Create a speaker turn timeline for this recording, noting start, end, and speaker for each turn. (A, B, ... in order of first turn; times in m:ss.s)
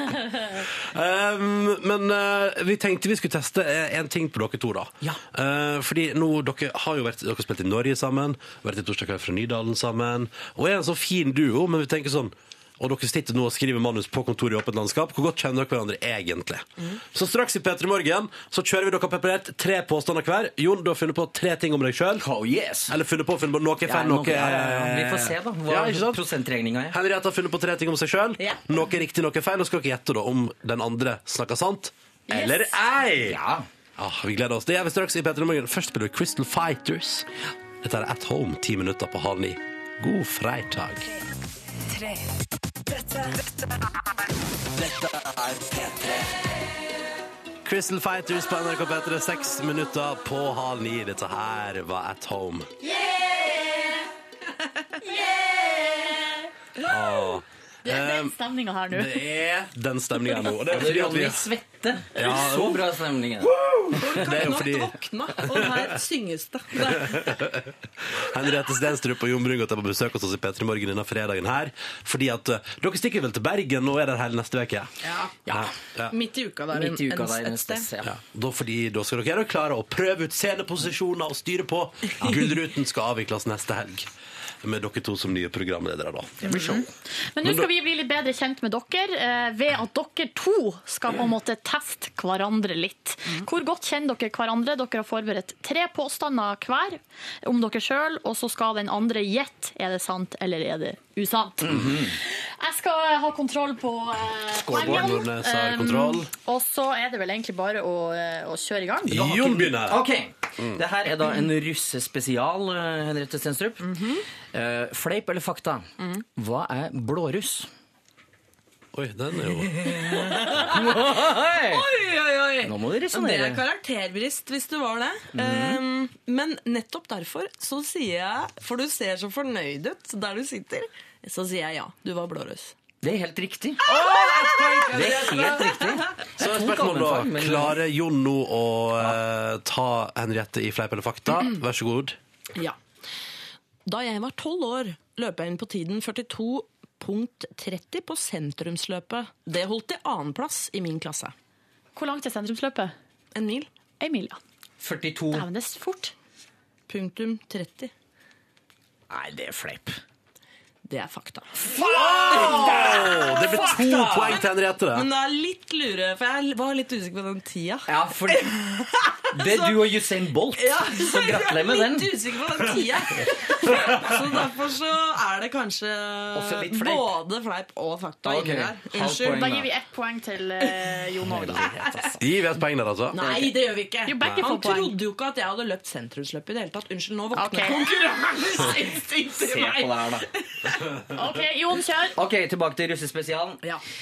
0:00.5-0:22.3 A
0:22.2-0:22.9 B
0:22.9-0:26.3 A
0:23.8-0:27.0 B
0:26.9-0:33.4 A
0:33.2-0:33.7 B
0:34.0-0:37.3 A
0:37.8-0:41.0 A
0:41.9-0:42.2 C
0:42.9-0:43.7 C
0:44.7-0:46.5 C
0:47.6-0:52.7 A
0:55.0-0:56.4 D
0:56.8-0:58.4 A
0:57.8-0:59.2 D
0:58.9-1:01.5 A
1:00.7-1:03.6 B
1:02.1-1:02.8 A
1:03.8-1:07.4 E
1:03.9-1:05.8 A
1:07.0-1:14.9 A
1:15.0-1:17.9 E
1:15.5-1:16.1 A
1:16.7-1:18.1 B
1:18.0-1:24.1 A
1:24.6-1:26.8 A
1:26.5-1:26.8 D
1:26.5-1:26.8 B
1:27.3-1:49.3 D
1:27.4-1:27.7 A
1:41.6-1:42.1 B
1:44.5-1:45.1 B
1:44.8-1:46.3 A
1:49.0-1:50.8 A
1:49.2-1:53.8 B
1:53.8-1:54.2 E
1:54.5-1:57.7 B
1:58.9-2:00.0 A
1:59.9-2:01.0 E
2:00.4-2:01.8 B
2:01.6-2:12.7 E
2:02.6-2:03.6 B
2:05.3-2:05.8 B
2:13.0-2:13.8 B
2:13.8-2:15.1 E
2:13.8-2:22.2 A
2:14.8-2:17.8 B
2:23.8-2:31.3 E
2:31.9-2:32.9 D
2:33.3-2:33.7 E
2:34.0-2:34.4 D
2:34.8-2:35.4 B
2:35.3-2:36.1 D
2:36.9-2:37.9 E
2:39.1-2:40.0 B
2:40.8-2:59.5 E
2:41.7-2:45.0 A
2:47.9-2:48.5 B
2:49.3-2:52.7 B
2:56.3-2:57.1 B
2:58.2-2:59.7 B
2:59.1-3:01.9 D
3:01.3-3:01.7 B
3:01.6-3:02.1 E
3:02.2-3:03.3 A
3:03.1-3:10.8 E
3:03.2-3:03.5 B
3:04.0-3:04.9 D
3:04.2-3:04.4 A
3:07.3-3:07.8 D
3:09.3-3:10.2 B
3:11.1-3:12.2 D
3:12.1-3:13.6 B